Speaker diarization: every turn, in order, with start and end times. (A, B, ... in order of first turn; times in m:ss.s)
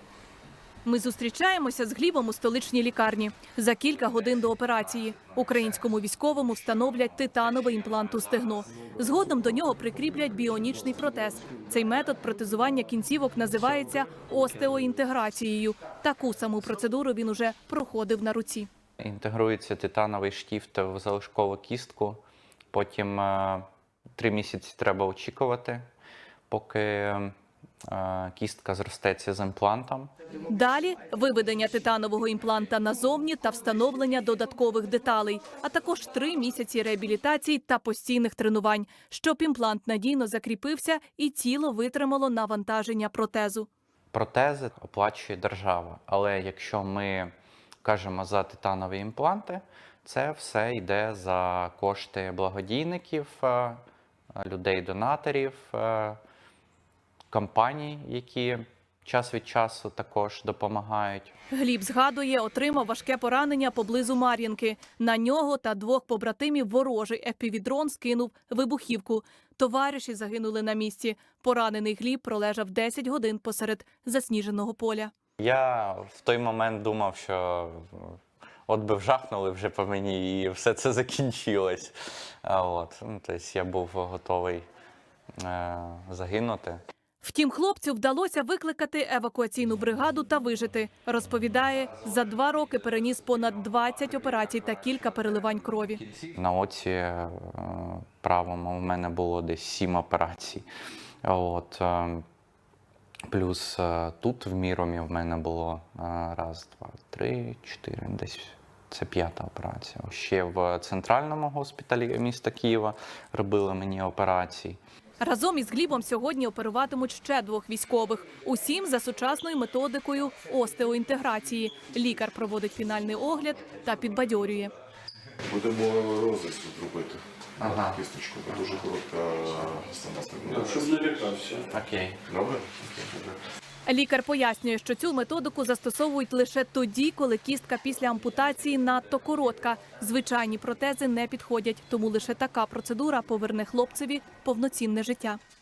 0:00.8-0:18.7 A
0:19.0-0:22.2 B
0:22.7-0:23.6 B
0:24.2-0:25.8 B
0:26.5-0:27.3 B
0:27.9-0:30.1 B
0:30.5-0:43.7 A
0:44.1-0:47.3 B
0:47.8-0:53.8 B
0:54.4-0:56.2 B
0:57.3-1:01.3 B
1:01.5-1:15.1 A
1:15.4-1:21.9 B
1:22.4-1:24.6 B
1:25.4-1:26.8 B
1:27.2-1:36.0 A
1:36.1-1:40.7 B
1:41.2-1:42.2 B
1:43.3-1:54.8 B
1:55.2-2:04.7 A
2:05.5-2:07.2 C
2:05.6-2:06.8 D
2:07.6-2:08.0 B
2:07.7-2:11.1 C
2:09.1-2:09.9 D
2:10.4-2:11.6 D
2:11.7-2:12.2 B
2:12.3-2:12.7 C
2:12.8-2:13.1 B
2:13.9-2:25.4 A